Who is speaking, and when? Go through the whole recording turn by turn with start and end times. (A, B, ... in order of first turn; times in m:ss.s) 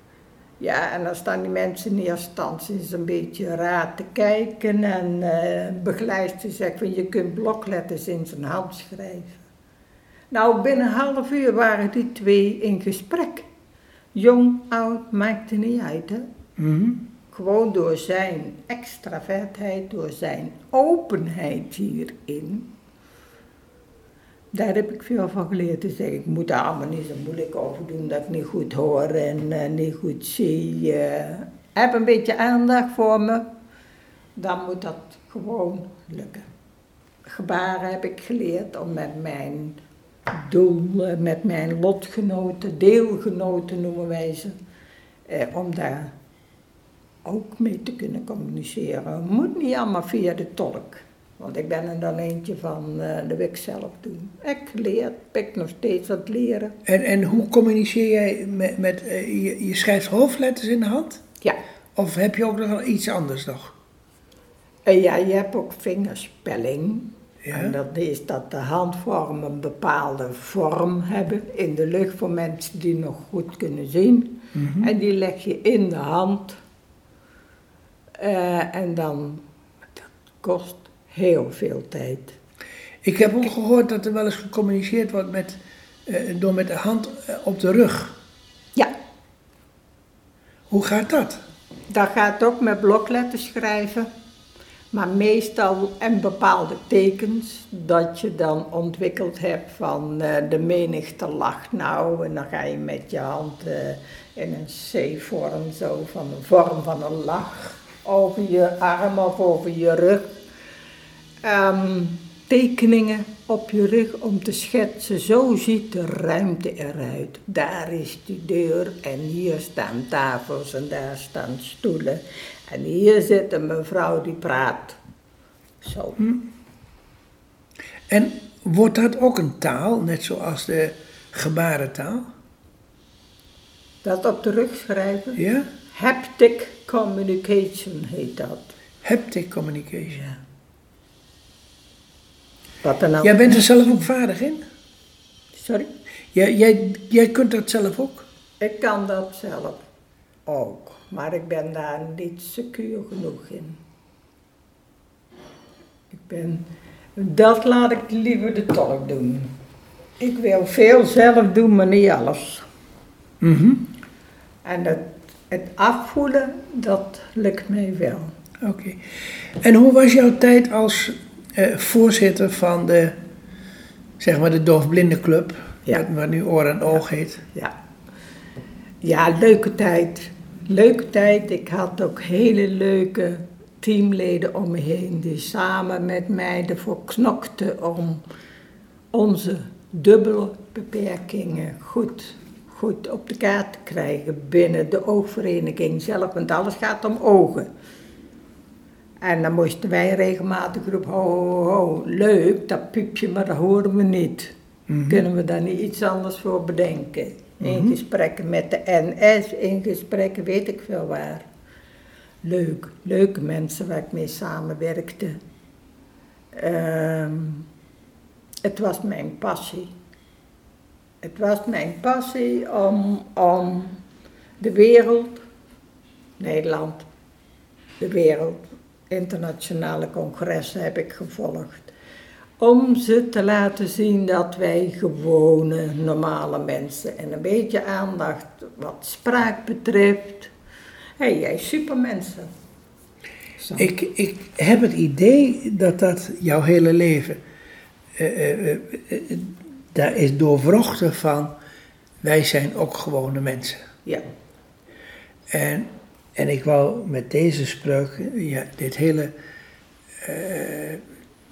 0:00.6-0:09.4 A
0:10.3-0:13.5 A
0:14.2-0:16.3 A
0:16.6-0:17.0 B
0:17.3-0:22.7 A
0:24.5-0:33.4 A
0:34.4-0:36.5 A
0:37.3-0:39.8 A
0:40.3-0:44.6 A
0:45.3-0:46.1 A
0:47.2-0:56.8 A
0:56.8-1:01.2 B
1:02.0-1:03.8 B
1:04.9-1:16.6 A
1:07.4-1:07.7 B
1:14.6-1:14.9 B
1:18.2-1:19.4 A
1:20.0-1:22.4 A
1:23.0-1:28.2 B
1:30.7-1:31.4 B
1:31.9-1:34.1 A
1:34.9-1:50.3 A
1:51.4-2:05.0 A
2:05.8-2:06.2 A
2:08.1-2:12.3 B
2:14.0-2:18.8 A
2:15.4-2:15.7 B
2:19.0-2:20.2 B
2:20.1-2:20.4 A
2:22.8-2:23.6 A
2:23.2-2:24.6 B
2:25.5-2:25.9 A
2:26.3-2:28.3 B
2:28.6-2:29.8 A
2:30.5-2:33.8 A
2:36.1-2:36.6 A
2:37.2-2:39.6 A
2:40.2-2:42.7 A
2:43.4-2:43.9 B
2:44.6-2:48.3 A
2:48.6-2:53.2 B
2:54.2-2:57.4 B
2:59.0-3:08.2 A
3:09.1-3:17.7 A
3:19.2-3:24.5 A
3:24.9-3:25.2 B
3:25.0-3:31.5 A
3:27.6-3:28.0 B
3:32.4-3:35.4 A
3:36.5-3:37.7 A
3:38.6-3:39.9 A
3:41.2-3:44.0 A
3:44.6-3:45.4 A
3:46.4-3:47.1 A
3:48.0-3:51.9 A
3:52.6-4:00.5 A
4:01.2-4:02.5 A
4:03.6-4:03.9 A
4:03.8-4:07.4 B
4:08.2-4:11.5 B
4:12.2-4:13.8 B
4:15.5-4:19.3 B
4:20.2-4:21.0 B